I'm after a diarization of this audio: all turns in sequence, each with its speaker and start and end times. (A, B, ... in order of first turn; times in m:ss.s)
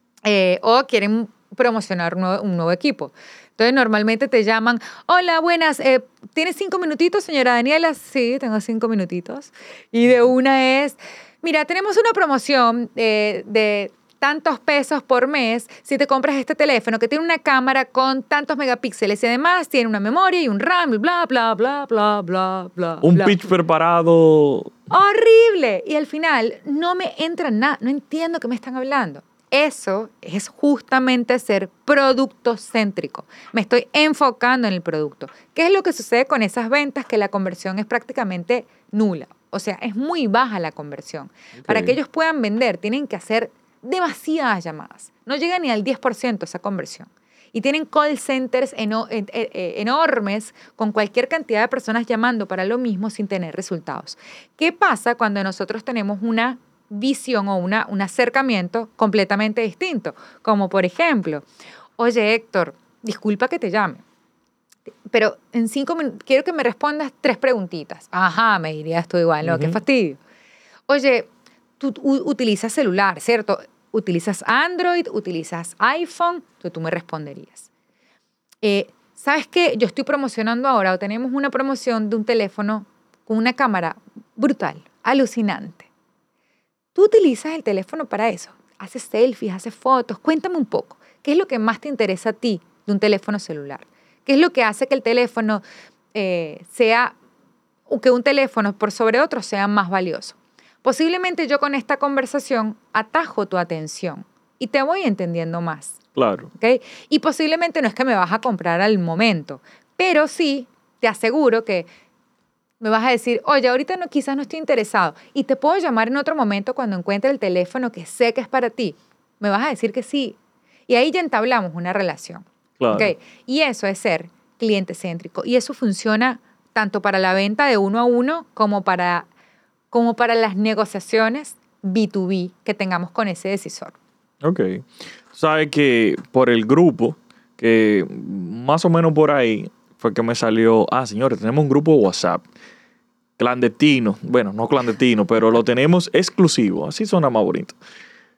0:00.2-0:23.5 A
0:23.0-0:24.7 B
0:24.9-1:01.4 A
0:41.6-0:42.0 B
1:02.0-1:04.0 A
1:05.1-1:10.2 A
1:09.4-1:09.8 B
1:10.9-1:17.7 A
1:18.6-1:25.9 A
1:26.9-1:35.6 A
1:36.1-1:37.2 A
1:37.9-1:46.0 A
1:46.2-1:46.5 B
1:46.6-1:51.9 A
1:52.8-2:00.4 A
2:00.9-2:09.3 A
2:02.8-2:03.1 B
2:09.9-2:13.9 A
2:14.4-2:22.4 B
2:23.4-2:27.8 B